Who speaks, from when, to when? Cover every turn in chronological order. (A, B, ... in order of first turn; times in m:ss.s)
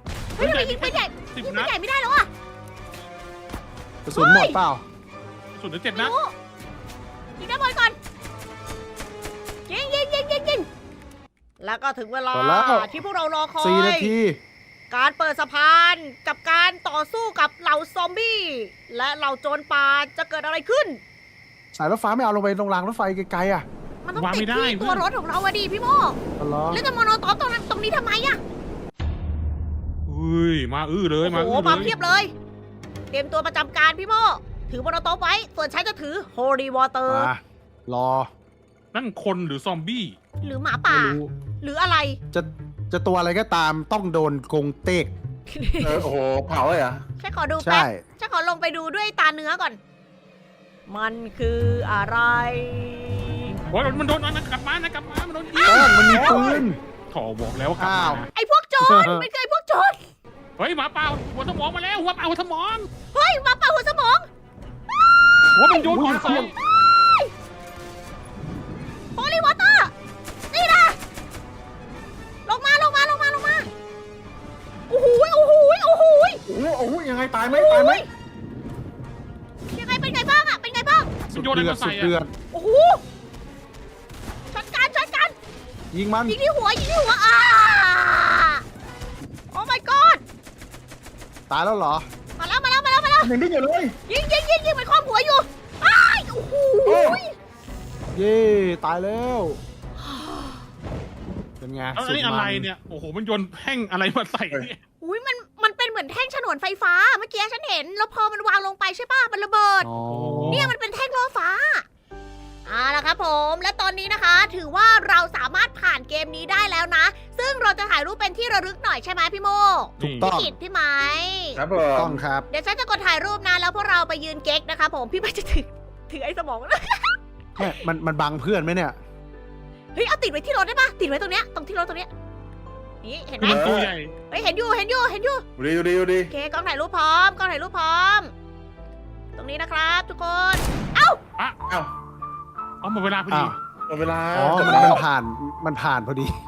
0:00.3-0:02.3 A
0:00.4-0:01.7 B
0:04.0-0:04.8 C
0:04.1-0:04.6 A
0:05.6-0:06.1 B
0:05.9-0:06.3 A
0:07.4-0:08.0 A
0:09.7-0:10.7 A
0:11.6-0:14.1 A
0:12.3-0:12.9 C
0:13.6-0:14.4 C
0:14.9-0:21.0 A
0:21.7-0:23.6 C
0:24.0-0:26.2 A
0:24.2-0:25.0 B
0:26.4-0:26.8 C
0:26.7-0:28.4 A
0:30.1-0:31.9 B
0:31.2-0:32.3 A
0:33.1-0:37.3 A
0:37.1-0:38.3 C
0:38.9-0:40.2 B
0:40.4-0:42.2 A
0:40.9-0:41.3 C
0:42.3-0:45.1 C
0:45.5-0:46.0 A
0:45.8-0:47.0 D
0:47.2-0:49.8 A
0:47.6-0:48.0 C
0:50.9-0:53.5 A
0:53.7-0:56.4 B
0:55.6-0:56.8 C
0:55.7-0:55.9 A
0:56.0-0:56.6 D
0:57.1-0:58.3 B
0:57.8-0:58.3 C
0:58.3-1:00.1 A
0:58.8-0:59.3 C
1:00.6-1:02.9 B
1:03.1-1:04.3 A
1:05.5-1:06.5 B
1:05.7-1:07.3 A
1:05.8-1:06.5 C
1:09.1-1:09.9 A
1:10.5-1:11.0 A
1:12.4-1:13.7 A
1:14.9-1:16.4 A
1:16.4-1:18.0 D
1:17.5-1:18.1 A
1:19.7-1:21.1 A
1:21.3-1:22.3 C
1:21.3-1:22.1 B
1:22.5-1:23.0 A
1:24.5-1:25.4 A
1:25.9-1:26.4 C
1:26.3-1:28.6 A
1:29.5-1:30.2 A
1:31.5-1:32.0 C
1:32.4-1:33.3 A
1:33.2-1:34.0 D
1:34.1-1:37.3 A
1:36.8-1:37.2 D
1:38.1-1:39.6 C
1:40.0-1:40.6 A
1:41.6-1:42.7 C
1:42.0-1:44.8 B
1:45.0-1:49.9 A
1:49.8-1:50.7 C
1:50.1-1:50.7 B
1:50.5-1:51.8 A
1:52.6-2:01.6 A
2:00.0-2:00.3 B
2:00.0-2:00.5 C
2:01.5-2:02.2 D
2:01.8-2:02.5 C
2:02.5-2:07.7 A
2:07.6-2:09.0 C
2:09.9-2:12.1 A
2:13.0-2:13.7 A
2:13.4-2:13.9 D
2:13.4-2:14.1 B
2:14.3-2:15.4 A
2:15.6-2:16.3 D
2:16.3-2:18.3 A
2:19.4-2:21.2 A
2:22.8-2:23.5 B
2:23.3-2:23.6 C
2:23.9-2:25.0 D
2:24.3-2:26.4 C